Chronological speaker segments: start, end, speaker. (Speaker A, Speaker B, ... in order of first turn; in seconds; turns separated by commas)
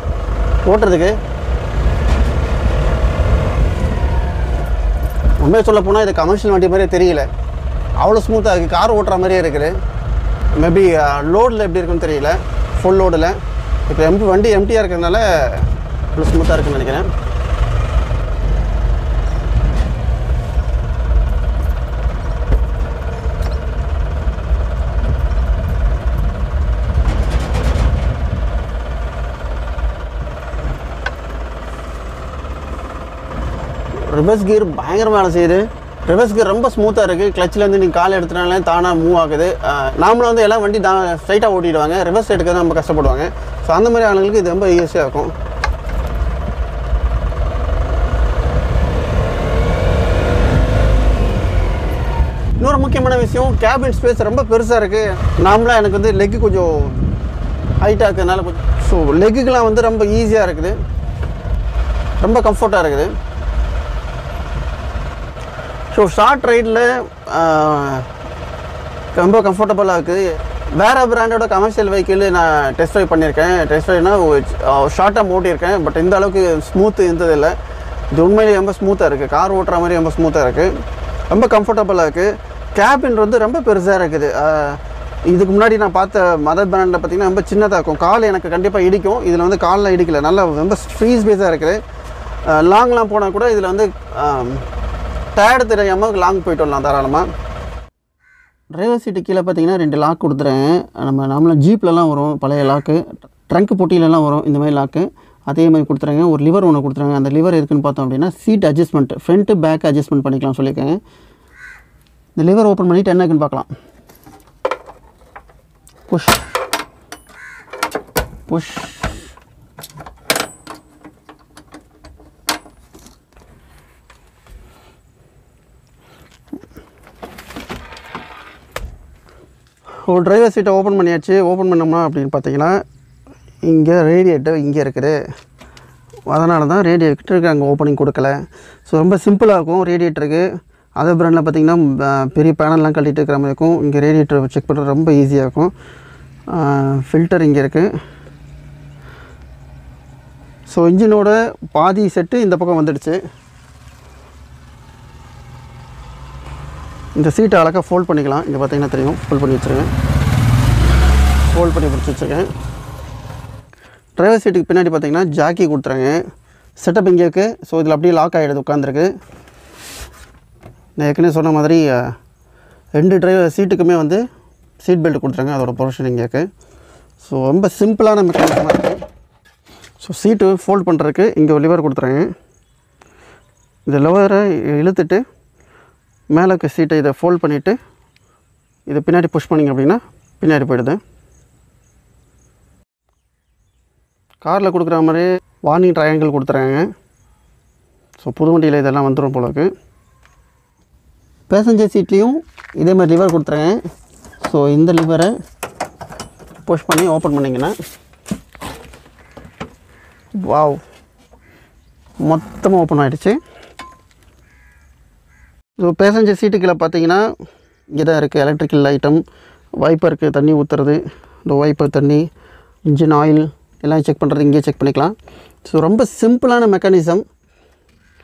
Speaker A: 0.6-1.2, Speaker A: 5.4-7.3, Speaker A: 8.0-9.8, Speaker A: 10.6-13.4, Speaker A: 13.9-17.1, Speaker A: 34.0-45.3, Speaker A: 52.6-57.1, Speaker A: 57.8-60.8, Speaker A: 62.2-63.1, Speaker A: 65.9-68.1, Speaker A: 69.2-77.6, Speaker A: 78.1-80.7, Speaker A: 81.3-91.8, Speaker A: 92.5-94.7, Speaker A: 95.3-97.3, Speaker A: 98.7-111.0, Speaker A: 112.4-113.7, Speaker A: 116.1-116.4, Speaker A: 118.5-119.1, Speaker A: 130.1-132.8, Speaker A: 133.6-135.2, Speaker A: 136.3-140.5, Speaker A: 141.0-145.7, Speaker A: 146.5-147.9, Speaker A: 150.7-153.2, Speaker A: 157.2-159.9, Speaker A: 161.5-162.5, Speaker A: 164.2-166.2, Speaker A: 166.8-169.1, Speaker A: 171.0-172.1, Speaker A: 173.0-174.2, Speaker A: 174.8-176.5, Speaker A: 177.2-179.0, Speaker A: 180.0-182.3, Speaker A: 183.9-185.2, Speaker A: 186.3-187.8, Speaker A: 188.9-191.0, Speaker A: 194.4-196.9, Speaker A: 198.2-199.7, Speaker A: 201.5-203.8, Speaker A: 204.4-205.3, Speaker A: 206.7-207.8, Speaker A: 210.4-210.8, Speaker A: 212.2-213.4, Speaker A: 215.8-217.2, Speaker A: 217.9-219.2, Speaker A: 219.8-222.3, Speaker A: 222.9-225.2, Speaker A: 225.7-227.2